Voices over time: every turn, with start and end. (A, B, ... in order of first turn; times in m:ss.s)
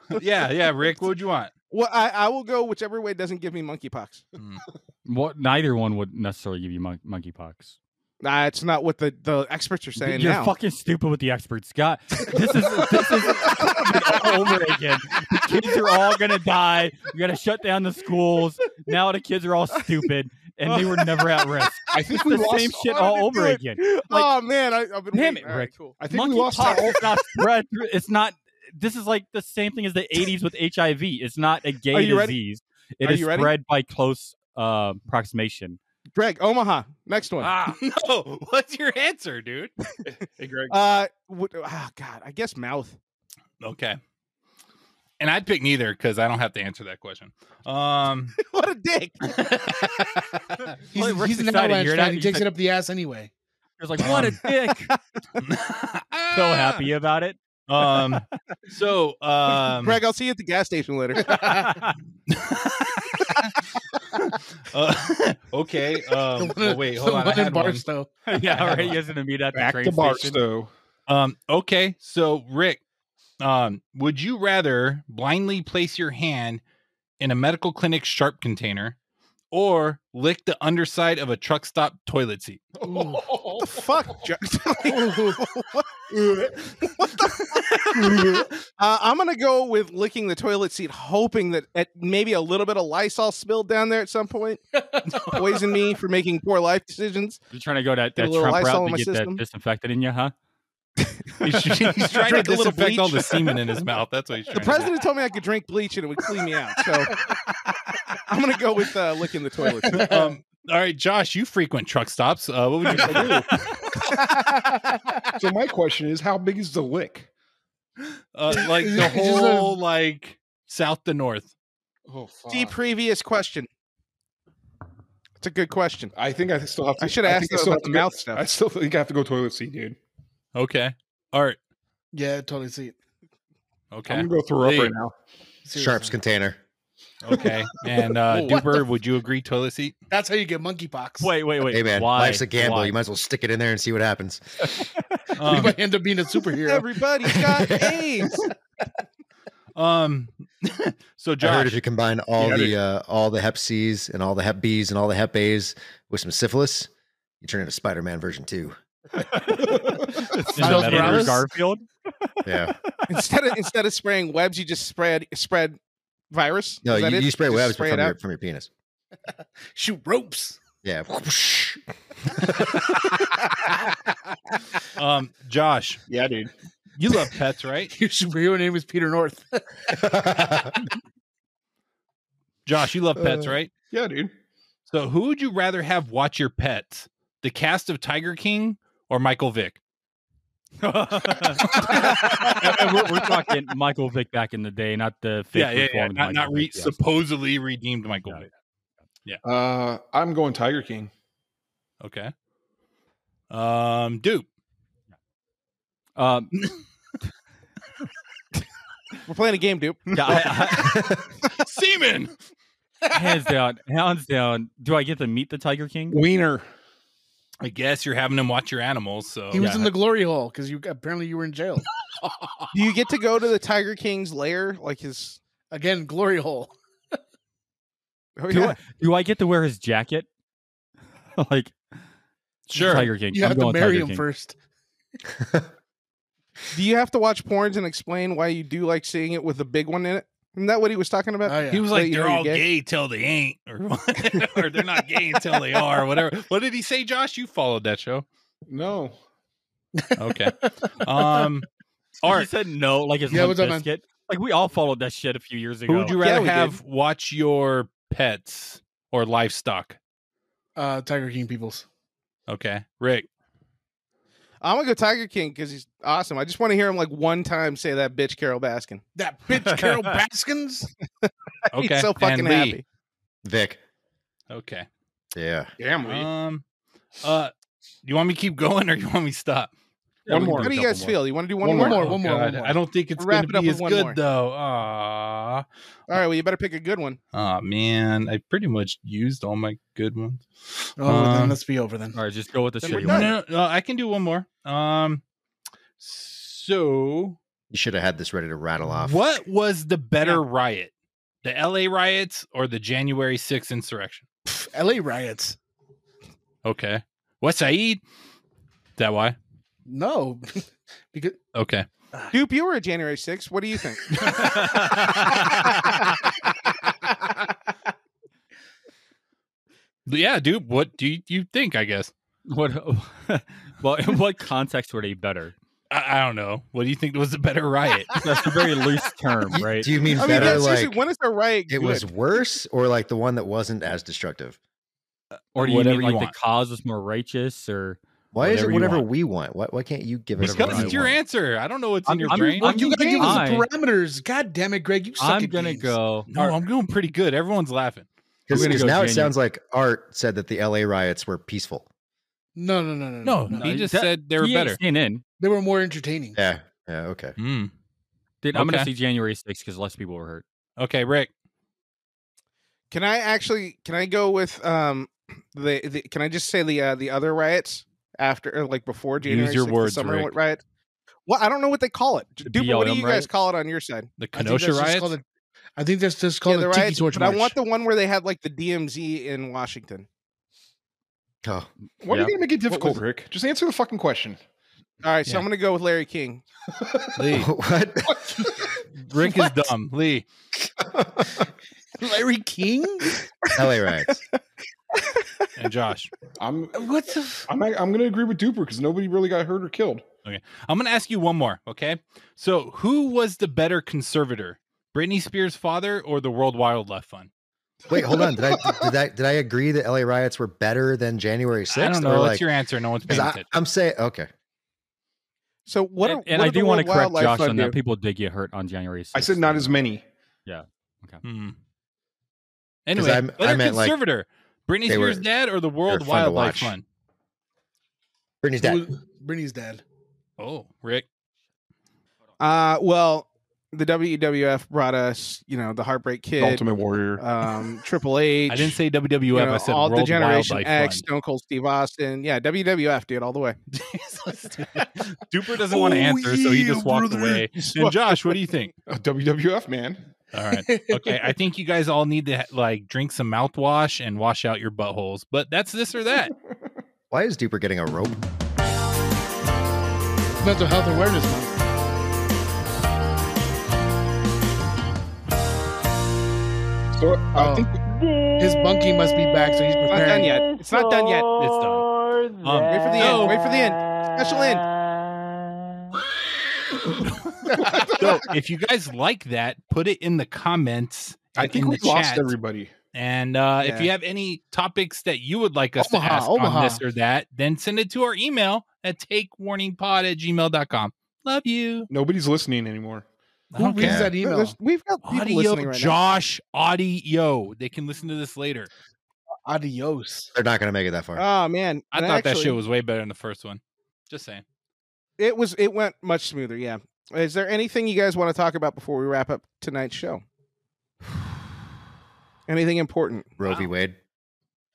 0:00.2-0:01.5 A
0:01.7-0:04.2 B
0:04.4-0:04.6 A
0:05.1-0:07.8 C
0:08.2-0:10.5 B
0:10.0-0:24.3 C
0:20.7-0:21.4 B
0:21.9-0:23.1 D
0:23.1-0:26.0 B
0:25.1-0:35.8 C
0:26.0-0:27.0 D
0:31.9-0:32.4 B
0:33.0-0:33.5 B
0:36.2-0:37.5 B
0:37.4-0:39.7 A
0:40.1-0:40.8 D
0:40.7-0:43.0 B
0:43.6-0:44.0 A
0:45.2-0:48.4 A
0:48.4-0:49.4 B
0:49.3-0:50.0 A
0:50.9-0:53.3 E
0:50.9-0:52.5 C
0:53.8-0:54.9 C
0:54.0-0:54.4 A
0:54.0-0:54.5 B
0:55.4-0:56.8 A
0:56.3-0:57.4 C
0:57.7-1:00.0 A
0:59.7-1:01.4 B
1:01.3-1:01.7 E
1:01.6-1:01.9 C
1:02.3-1:03.5 A
1:04.1-1:07.8 A
1:06.4-1:08.1 E
1:08.3-1:10.4 C
1:09.5-1:10.7 D
1:11.1-1:12.8 A
1:13.4-1:16.6 A
1:17.2-1:19.0 A
1:19.5-1:22.7 A
1:22.8-1:24.0 D
1:22.8-1:23.4 E
1:23.6-1:25.9 B
1:24.9-1:25.4 E
1:26.1-1:26.7 D
1:26.8-1:28.0 B
1:28.0-1:28.5 D
1:28.8-1:34.6 B
1:34.8-1:35.2 E
1:35.1-1:35.4 A
1:35.3-1:37.4 B
1:37.5-1:40.3 C
1:38.2-1:39.4 B
1:41.4-1:44.9 A
1:42.0-1:43.6 B
1:44.5-1:47.2 B
1:48.3-1:50.1 B
1:49.9-1:50.4 E
1:49.9-1:53.6 A
1:52.9-1:53.5 D
1:54.4-1:54.9 E
1:55.4-1:57.3 D
1:58.3-2:01.5 A
1:58.5-1:59.8 E
2:02.1-2:02.8 D
2:02.5-2:03.7 B
2:05.4-2:06.1 B
2:06.2-2:10.0 D
2:07.0-2:08.5 B
2:10.6-2:11.6 A
2:12.1-2:13.0 E
2:13.9-2:15.0 A
2:14.1-2:15.1 D
2:15.6-2:16.2 E
2:15.7-2:16.6 F
2:17.2-2:20.0 A
2:18.3-2:18.7 E
2:20.1-2:21.3 E
2:21.2-2:23.0 C
2:21.7-2:24.8 F
2:25.4-2:25.8 A
2:25.4-2:26.9 E
2:26.6-2:28.4 B
2:27.3-2:28.0 F
2:29.8-2:31.8 A
2:31.4-2:36.9 F
2:32.4-2:32.7 D
2:37.4-2:38.8 F
2:39.2-2:41.9 C
2:39.6-2:40.2 D
2:40.6-2:41.5 E
2:40.6-2:41.3 A
2:42.4-2:42.8 F
2:43.1-2:45.8 B
2:46.3-2:48.2 B
2:46.8-2:48.7 F
2:49.7-2:50.6 E
2:50.8-2:52.8 F
2:55.0-2:56.0 A
2:56.1-2:56.5 D
2:57.0-2:57.9 A
2:57.9-3:00.2 E
3:00.1-3:00.7 F
3:02.7-3:03.7 A
3:03.9-3:04.3 D
3:04.9-3:09.8 A
3:10.8-3:17.0 C
3:11.8-3:12.5 D
3:11.8-3:12.1 A
3:15.5-3:18.5 A
3:19.4-3:21.1 D
3:22.0-3:22.3 A
3:23.5-3:24.5 A
3:26.2-3:26.5 C
3:29.2-3:30.4 B
3:30.1-3:31.0 C
3:30.8-3:31.2 F
3:31.6-3:32.3 A
3:33.1-3:36.2 C
3:36.1-3:36.6 D
3:37.6-3:39.6 A
3:39.5-3:41.9 E
3:39.6-3:39.9 C
3:42.7-3:45.4 B
3:45.7-3:46.7 E
3:48.4-3:48.8 B
3:48.5-3:50.3 C
3:51.4-3:51.8 C
3:52.7-3:53.1 A
3:52.8-3:54.6 E
3:52.8-3:54.2 C
3:56.7-4:02.6 B
4:01.5-4:01.9 E
4:01.7-4:08.3 A
4:08.7-4:09.2 D
4:10.0-4:11.5 E
4:10.2-4:11.7 A
4:12.2-4:12.5 A
4:12.2-4:16.2 C
4:13.3-4:13.9 E
4:15.9-4:20.0 A
4:16.2-4:16.8 B
4:20.8-4:21.9 E
4:22.5-4:23.3 A
4:24.6-4:29.0 B
4:29.2-4:30.9 E
4:31.7-4:32.8 A
4:31.8-4:32.8 B
4:33.4-4:33.8 F
4:34.5-4:34.9 A
4:35.4-4:35.7 F
4:35.8-4:36.3 D
4:36.0-4:36.6 A
4:37.2-4:37.5 A
4:38.0-4:39.7 A
4:40.3-4:41.2 C
4:40.3-4:40.7 D
4:40.5-4:42.2 B
4:41.6-4:42.0 D
4:41.7-4:42.8 E
4:42.0-4:46.2 A
4:43.2-4:44.2 B
4:46.1-4:47.2 B
4:47.3-4:51.6 A
4:51.0-4:52.2 E
4:52.1-4:53.4 C
4:52.8-4:53.4 B
4:52.9-4:55.2 A
4:56.0-4:57.4 A
4:57.7-4:59.3 F
4:58.8-5:00.9 A
5:01.4-5:04.2 A
5:04.5-5:05.6 E
5:06.6-5:08.0 A
5:09.0-5:09.4 A
5:09.9-5:11.4 E
5:11.6-5:11.9 A
5:12.3-5:14.5 B
5:14.3-5:16.0 C
5:20.1-5:22.1 A
5:22.5-5:25.6 C
5:25.9-5:28.2 A
5:28.2-5:30.6 C
5:29.5-5:31.0 F
5:30.2-5:32.1 B
5:31.7-5:34.6 F
5:35.6-5:39.1 C
5:35.6-5:36.4 A
5:38.3-5:41.2 F
5:40.4-5:41.1 C
5:40.4-5:42.8 A
5:42.1-5:43.7 C
5:42.3-5:46.0 E
5:45.2-5:46.3 C
5:46.3-5:48.1 A
5:48.5-5:51.9 F
5:48.5-5:49.3 C
5:52.6-5:53.8 E
5:53.2-5:54.8 A
5:53.6-5:55.2 C
5:55.4-5:56.4 E
5:56.3-5:57.4 F
5:57.4-5:57.7 A
5:58.4-6:00.4 C
5:58.5-5:58.9 A
6:00.8-6:01.3 A
6:02.9-6:10.6 B
6:09.2-6:10.3 A
6:11.3-6:14.1 B
6:12.4-6:13.3 C
6:14.2-6:15.2 A
6:14.4-6:15.2 E
6:15.8-6:17.6 E
6:16.4-6:20.1 B
6:21.4-6:21.7 F
6:22.0-6:24.4 D
6:22.1-6:22.4 C
6:22.7-6:23.0 B
6:25.0-6:26.4 B
6:26.8-6:27.2 D
6:27.2-6:27.5 A
6:27.3-6:28.4 F
6:29.0-6:30.3 A
6:32.0-6:33.2 E
6:33.5-6:34.2 F
6:35.6-6:36.1 A
6:36.4-6:36.9 D
6:36.8-6:37.5 E
6:37.5-6:40.0 D
6:40.3-6:47.3 A
6:47.9-6:52.5 F
6:48.0-6:48.8 D
6:51.7-6:53.5 A
6:53.1-6:54.3 F
6:55.7-6:57.8 B
6:56.0-6:59.8 C
6:59.1-7:00.0 D
7:00.5-7:01.2 C
7:01.2-7:01.6 A
7:02.9-7:06.8 A
7:03.0-7:04.0 F
7:04.9-7:05.3 F
7:05.9-7:06.8 F
7:08.4-7:08.8 F
7:08.6-7:09.8 E
7:10.4-7:11.1 A
7:12.4-7:16.7 B
7:16.4-7:17.2 D
7:17.2-7:18.8 B
7:18.5-7:21.0 A
7:19.3-7:23.6 B
7:23.7-7:28.7 A
7:25.7-7:27.4 E
7:28.9-7:30.0 D
7:30.3-7:36.3 A
7:30.6-7:31.2 E
7:37.1-7:38.2 F
7:40.4-7:41.6 E
7:47.0-7:47.8 D
7:47.3-7:47.7 E
7:48.4-7:50.4 E
7:49.9-7:51.3 B
7:51.4-7:51.9 A
7:52.4-7:53.4 A
7:52.7-7:54.6 B
7:57.0-8:02.3 A
7:57.5-7:58.3 D
7:57.5-7:58.0 E
8:01.4-8:02.7 D
8:02.9-8:11.9 A
8:03.6-8:03.9 B
8:05.8-8:06.8 E
8:11.9-8:13.0 D
8:13.5-8:14.1 A
8:13.6-8:14.6 E
8:13.8-8:14.1 F
8:14.2-8:16.0 B
8:15.0-8:18.7 A
8:19.5-8:20.3 E
8:20.3-8:21.2 F
8:21.2-8:22.6 B
8:21.9-8:24.4 A
8:25.2-8:30.2 B
8:32.5-8:33.3 B
8:33.4-8:34.0 F